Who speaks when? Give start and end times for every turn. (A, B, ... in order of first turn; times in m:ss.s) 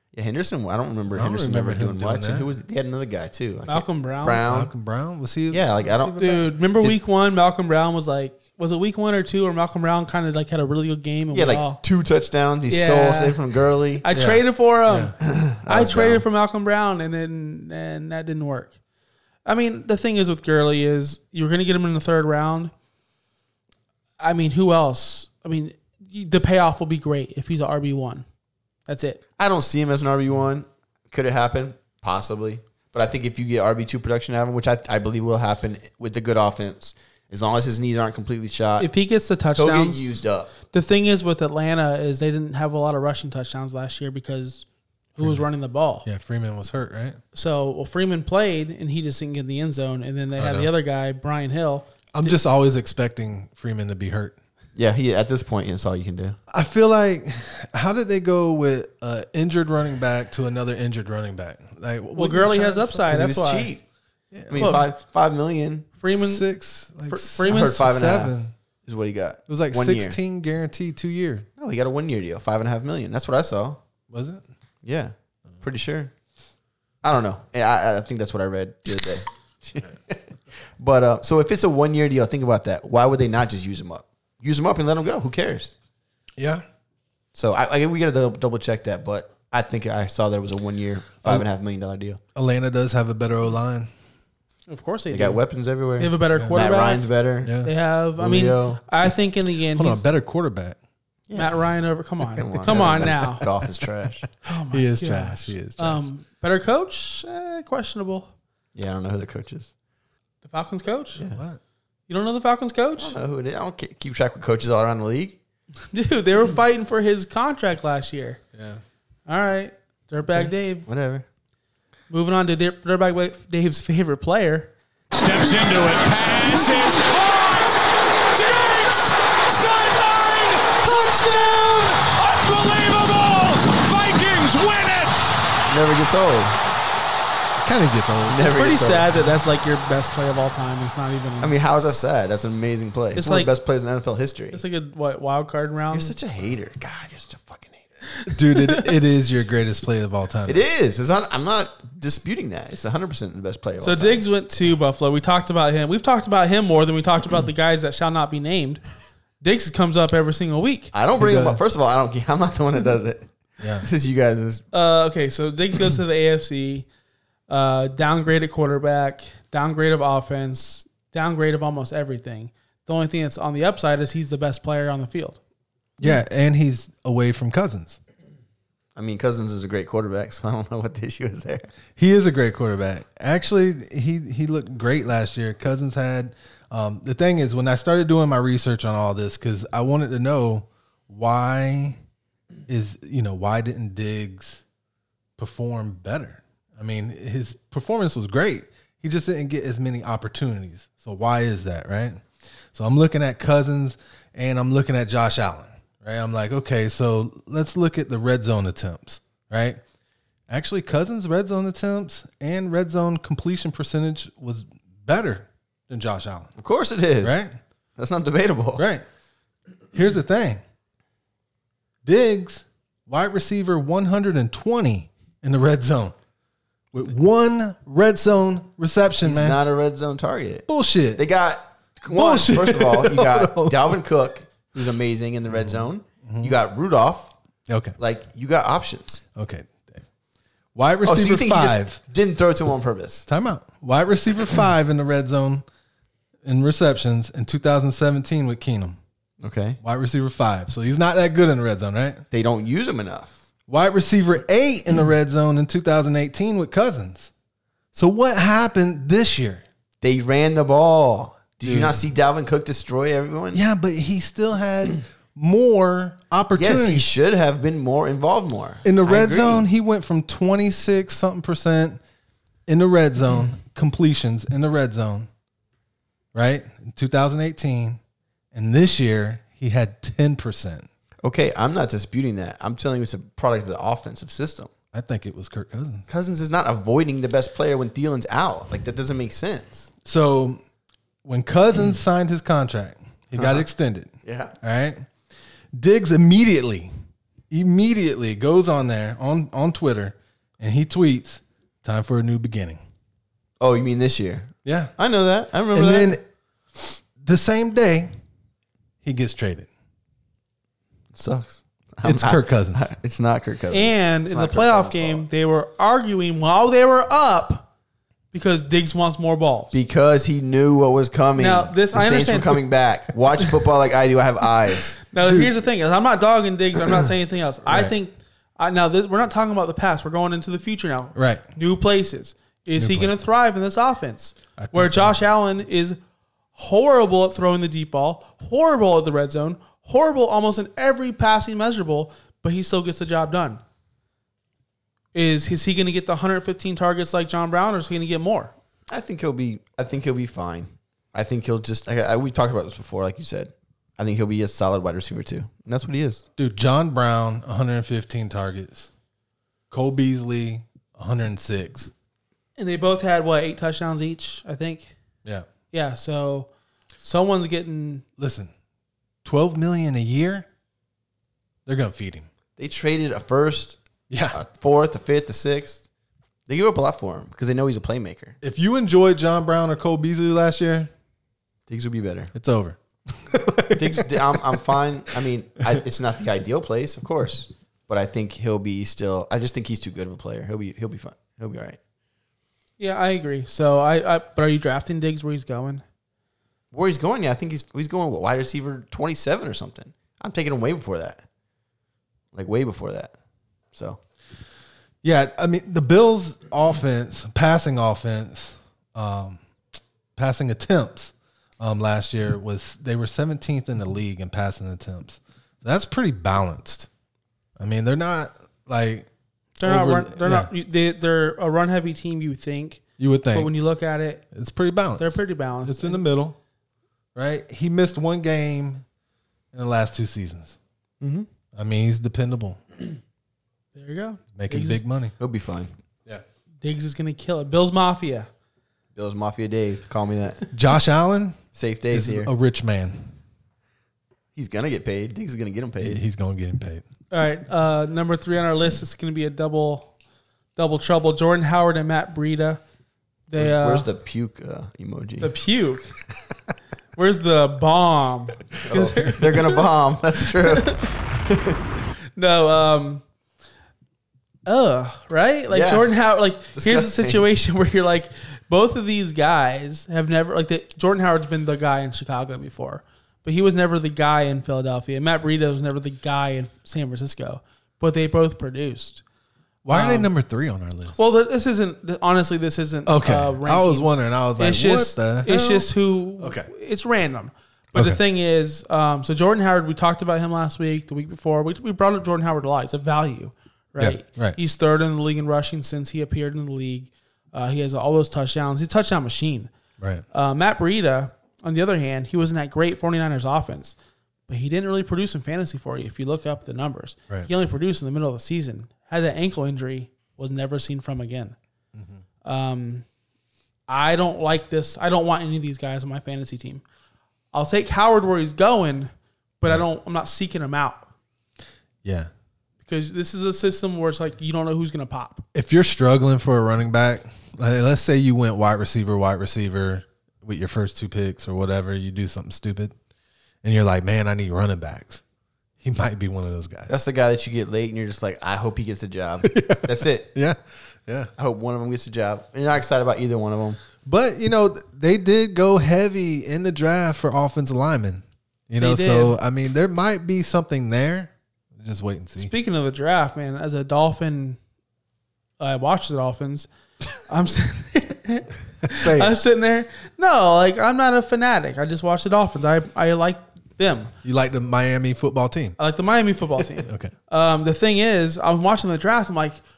0:00.1-0:04.7 A
0:01.1-0:02.5 B
0:03.7-0:04.4 C
0:04.5-0:06.4 B
0:05.5-0:07.0 A
0:06.2-0:11.8 C
0:11.3-0:14.0 A
0:12.7-0:13.4 C
0:14.0-0:15.2 C
0:14.1-0:15.1 B
0:15.2-0:16.2 A
0:15.7-0:18.7 C
0:19.4-0:22.7 C
0:24.2-0:28.2 C
0:28.9-0:29.2 C
0:29.4-0:38.9 A
0:38.8-0:46.0 C
0:39.5-0:40.5 A
0:45.2-0:45.4 B
0:46.0-0:47.2 B
0:47.3-0:52.4 C
0:50.4-0:50.7 B
0:52.1-0:54.4 B
0:54.7-0:56.4 A
0:56.5-1:03.1 B
1:02.2-1:03.7 C
1:03.1-1:03.8 A
1:04.3-1:04.8 B
1:04.5-1:05.9 A
1:04.6-1:04.8 C
1:06.0-1:06.4 C
1:06.1-1:08.5 B
1:07.1-1:07.8 C
1:07.4-1:08.3 A
1:08.8-1:10.2 A
1:09.5-1:11.5 B
1:11.6-1:13.8 A
1:14.1-1:14.4 B
1:14.8-1:16.1 A
1:17.0-1:20.2 A
1:20.8-1:25.7 A
1:26.4-1:26.6 B
1:27.3-1:32.2 A
1:32.3-1:33.9 B
1:34.7-1:35.4 C
1:35.1-1:37.6 A
1:36.0-1:37.1 C
1:37.4-1:37.7 B
1:37.6-1:40.1 C
1:38.2-1:38.8 A
1:39.7-1:40.8 B
1:41.3-1:41.6 A
1:41.3-1:43.5 C
1:42.3-1:44.3 A
1:42.6-1:43.1 B
1:44.4-1:48.3 C
1:44.5-1:46.1 B
1:48.7-1:49.7 A
1:50.4-1:51.2 C
1:51.2-1:51.6 B
1:52.1-1:53.2 C
1:53.0-1:55.4 A
1:55.9-1:58.4 C
1:58.5-1:58.8 B
1:59.3-2:00.9 C
2:00.4-2:01.2 A
2:02.1-2:04.7 C
2:05.1-2:07.8 D
2:08.3-2:15.4 D
2:10.8-2:11.8 A
2:15.7-2:16.6 A
2:17.6-2:18.5 B
2:18.3-2:19.0 A
2:18.5-2:21.5 C
2:21.4-2:24.6 A
2:23.1-2:23.5 C
2:24.5-2:26.1 C
2:25.9-2:27.9 A
2:28.3-2:30.6 B
2:28.3-2:28.9 C
2:30.4-2:34.2 A
2:33.8-2:38.8 C
2:39.4-2:40.9 C
2:40.9-2:44.6 A
2:41.2-2:41.6 B
2:43.6-2:43.9 B
2:44.7-2:46.9 C
2:47.5-2:55.4 C
2:56.0-2:58.0 B
2:59.0-3:01.7 A
3:02.0-3:12.0 B
3:12.7-3:14.6 B
3:15.4-3:29.8 B
3:30.5-3:36.5 B
3:36.6-3:37.4 A
3:37.2-3:37.6 B
3:38.0-3:38.8 A
3:38.8-3:39.0 B
3:39.9-3:40.6 B
3:42.0-3:46.1 B
3:46.9-3:49.6 B
3:49.2-3:57.3 A
3:50.7-3:51.2 B
3:52.1-3:54.0 B
3:55.5-3:56.5 B
3:57.7-3:58.0 B
3:58.0-3:59.2 A
3:59.3-4:00.0 B
4:00.7-4:02.0 B
4:01.0-4:03.2 A
4:03.3-4:05.6 B
4:06.4-4:09.0 B
4:09.4-4:09.8 A
4:09.8-4:12.2 B
4:12.3-4:13.4 A
4:13.7-4:17.3 B
4:17.9-4:19.6 B
4:20.0-4:23.6 A
4:21.6-4:22.0 B
4:23.5-4:27.1 B
4:26.6-4:29.6 A
4:28.8-4:32.0 B
4:32.7-4:35.3 B
4:36.3-4:38.0 B
4:38.5-4:40.9 B
4:41.2-4:44.7 A
4:44.9-4:46.0 B
4:46.1-4:49.9 A
4:50.0-4:50.6 B
4:51.2-4:55.1 B
4:53.4-4:53.6 A
4:54.2-4:54.5 A
4:55.7-4:56.9 B
4:57.5-5:02.8 B
5:03.6-5:06.2 A
5:04.6-5:04.9 B
5:05.7-5:06.2 B
5:06.7-5:08.1 B
5:09.0-5:09.7 B
5:11.1-5:15.2 A
5:12.0-5:12.9 B
5:13.7-5:17.7 C
5:18.3-5:19.7 C
5:19.7-5:25.0 A
5:21.4-5:22.6 C
5:25.1-5:36.0 C
5:25.2-5:25.5 B
5:27.7-5:27.9 B
5:31.1-5:31.4 B
5:32.7-5:33.2 B
5:34.6-5:35.2 B
5:36.5-5:43.6 C
5:45.1-5:48.5 C
5:48.9-5:56.2 A
5:56.4-5:58.9 B
5:59.7-6:01.9 B
6:02.6-6:04.9 C
6:05.7-6:06.5 C
6:07.0-6:08.0 C
6:08.2-6:08.5 B
6:09.2-6:10.5 B
6:11.6-6:12.3 B
6:12.6-6:13.8 A
6:14.1-6:14.4 B
6:14.3-6:15.8 A
6:16.5-6:18.4 A
6:18.4-6:20.9 B
6:21.7-6:22.3 A
6:22.3-6:24.6 B
6:23.7-6:31.8 A
6:32.8-6:35.8 C
6:36.7-6:41.2 A
6:42.3-6:43.1 A
6:43.7-6:44.0 A
6:45.0-6:49.4 B
6:50.2-6:56.9 B
6:57.6-6:59.1 B
6:59.6-7:04.2 C
6:59.6-7:00.5 B
7:03.0-7:03.5 B
7:04.3-7:06.4 B
7:05.0-7:06.0 C
7:07.1-7:08.8 B
7:09.5-7:10.6 B
7:11.0-7:11.3 A
7:11.5-7:12.6 B
7:13.7-7:14.8 C
7:14.3-7:15.1 B
7:15.2-7:15.7 A
7:16.6-7:18.3 C
7:18.9-7:20.4 A
7:20.5-7:23.1 B
7:21.5-7:22.3 A
7:24.3-7:26.0 A
7:25.8-7:26.8 B
7:27.1-7:29.9 C
7:30.6-7:32.6 C
7:33.3-7:33.8 C
7:33.4-7:35.4 A
7:35.2-7:35.9 C
7:37.0-7:39.6 C
7:38.6-7:41.6 A
7:40.5-7:40.8 C
7:42.2-7:43.0 C
7:44.4-7:59.0 C
7:45.5-7:45.9 A
7:46.5-7:47.2 A
7:59.6-8:01.0 B
7:59.7-8:00.1 C
8:01.0-8:19.5 C
8:02.8-8:06.5 B
8:07.7-8:08.0 B
8:13.8-8:14.4 B
8:19.8-8:20.0 B
8:20.1-8:23.7 C
8:24.3-8:31.4 C
8:31.7-8:32.0 B
8:32.2-8:32.8 C
8:33.7-8:36.6 C
8:37.3-8:40.9 C
8:41.8-8:42.1 B
8:42.6-8:45.2 C
8:45.3-8:52.7 B
8:53.4-8:55.0 B
8:55.6-8:56.7 B
8:56.7-9:00.1 A
8:59.2-9:01.1 B
9:01.2-9:03.6 A
9:03.8-9:12.3 B
9:08.6-9:09.2 C
9:12.2-9:14.4 C
9:15.4-9:16.5 C
9:17.1-9:23.9 C
9:18.6-9:19.1 B
9:24.0-9:25.6 B
9:25.6-9:29.4 C
9:26.6-9:26.9 B